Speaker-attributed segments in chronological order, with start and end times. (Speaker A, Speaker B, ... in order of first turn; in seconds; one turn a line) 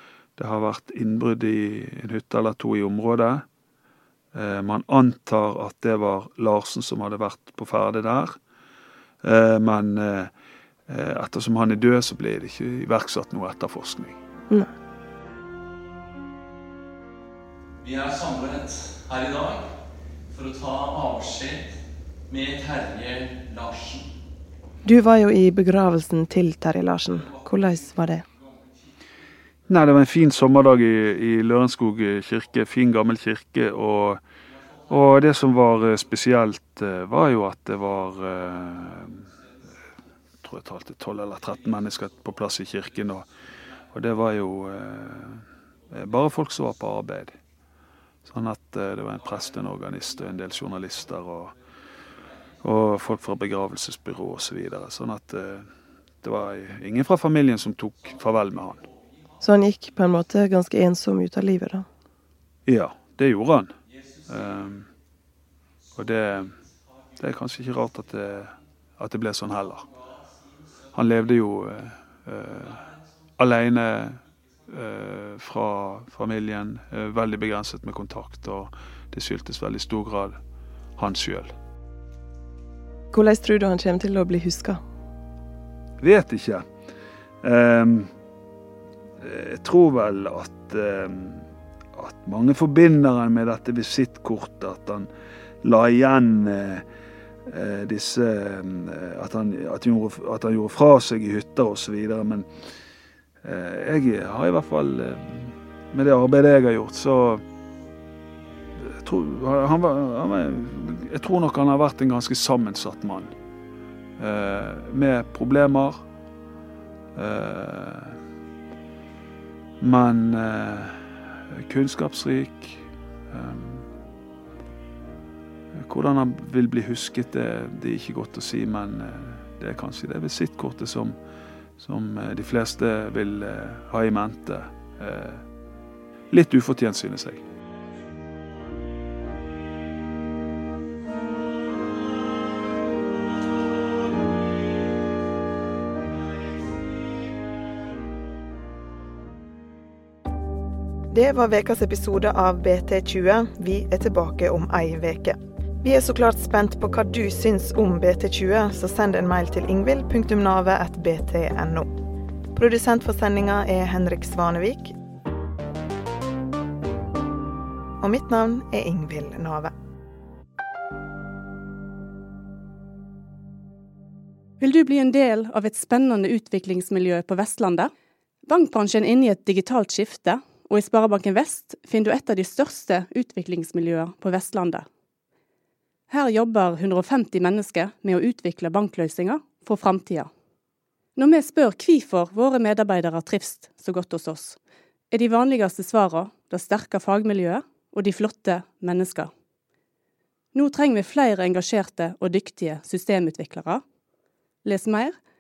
Speaker A: 0.4-3.5
Speaker A: 4.3-8.4
Speaker A: 9.2-10.3
Speaker A: 10.9-14.2
Speaker B: 17.8-19.6
Speaker B: 20.3-21.7
Speaker B: 22.3-24.1
Speaker C: 24.9-28.2
Speaker A: 29.7-34.2
Speaker A: 34.9-39.3
Speaker A: 40.4-43.3
Speaker A: 43.9-47.4
Speaker A: 48.2-51.6
Speaker A: 52.6-55.7
Speaker A: 56.2-58.9
Speaker C: 59.4-61.9
Speaker A: 62.7-64.9
Speaker A: 65.9-66.6
Speaker A: 67.2-69.9
Speaker A: 70.9-72.9
Speaker A: 73.4-80.4
Speaker A: 81.0-81.5
Speaker C: 83.1-84.8
Speaker A: 86.0-86.7
Speaker A: 87.4-88.1
Speaker A: 89.2-95.1
Speaker A: 95.6-96.9
Speaker A: 97.5-102.5
Speaker A: 103.4-107.4
Speaker A: 108.8-113.3
Speaker A: 114.2-116.0
Speaker A: 117.2-118.2
Speaker A: 119.8-123.9
Speaker A: 125.8-131.2
Speaker A: 131.8-135.4
Speaker A: 136.3-137.4
Speaker D: 151.1-161.9
Speaker D: 162.6-164.9
Speaker D: 168.0-169.7
Speaker E: 174.6-177.9
Speaker E: 178.5-184.9
Speaker E: 186.1-190.3
Speaker E: 191.2-194.6
Speaker E: 195.1-199.3
Speaker E: 200.5-203.8
Speaker E: 204.6-205.2